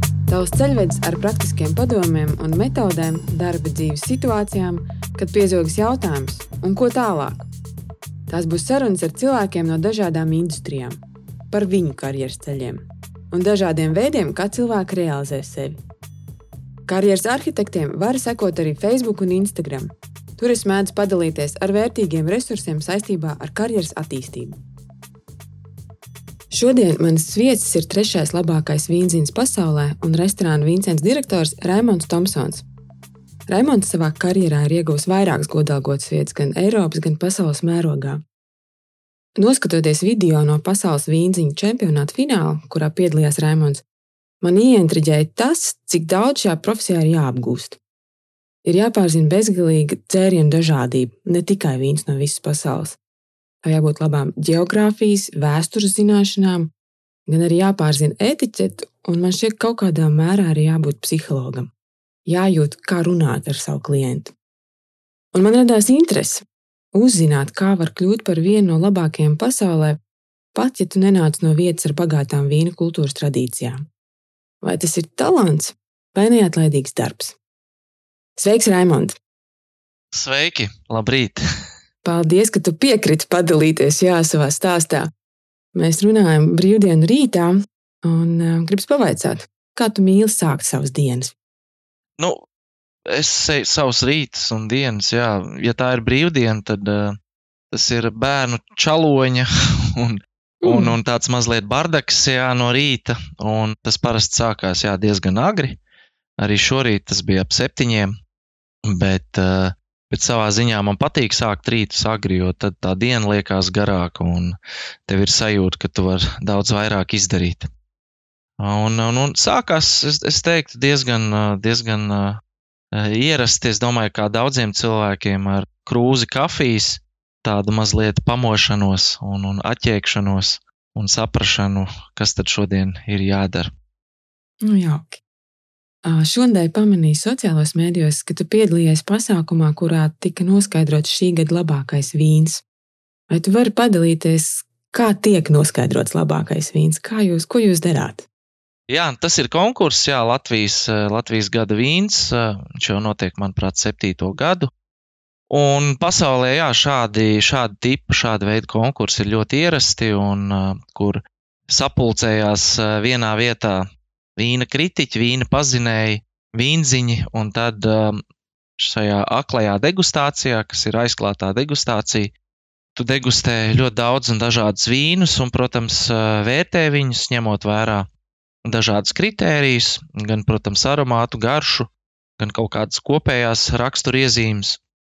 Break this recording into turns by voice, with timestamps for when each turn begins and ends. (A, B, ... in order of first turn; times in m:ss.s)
0:00.3-0:07.4 A
0:08.3-0:11.0 A
0:11.5-0:15.8 A
0:16.9-0:24.6 A
0:26.5-0:32.6 A
0:33.5-0:38.2 A
0:39.4-0:43.8 A
0:44.4-0:47.8 A
0:48.6-0:53.0 A
0:53.6-0:56.7 A
0:57.3-1:01.7 A
1:02.3-1:04.3 A
1:05.3-1:10.0 A
1:10.5-1:13.8 A
1:14.6-1:17.4 A
1:18.4-1:19.2 A
1:20.1-1:21.4 B
1:22.0-1:25.1 A
1:25.7-1:27.5 A
1:28.0-1:31.3 A
1:33.0-1:37.2 B
1:37.7-1:45.8 B
1:40.6-1:41.0 A
1:46.4-1:48.1 B
1:48.8-1:54.6 B
1:55.1-1:57.7 B
1:58.6-2:02.4 B
2:02.9-2:13.7 B
2:14.6-2:15.2 A
2:16.0-2:22.6 A
2:23.3-2:28.2 A
2:28.9-2:34.7 B
2:35.5-2:43.8 B
2:44.4-2:48.2 B
2:48.8-2:52.3 B
2:53.0-2:58.1 B
2:58.6-3:04.8 B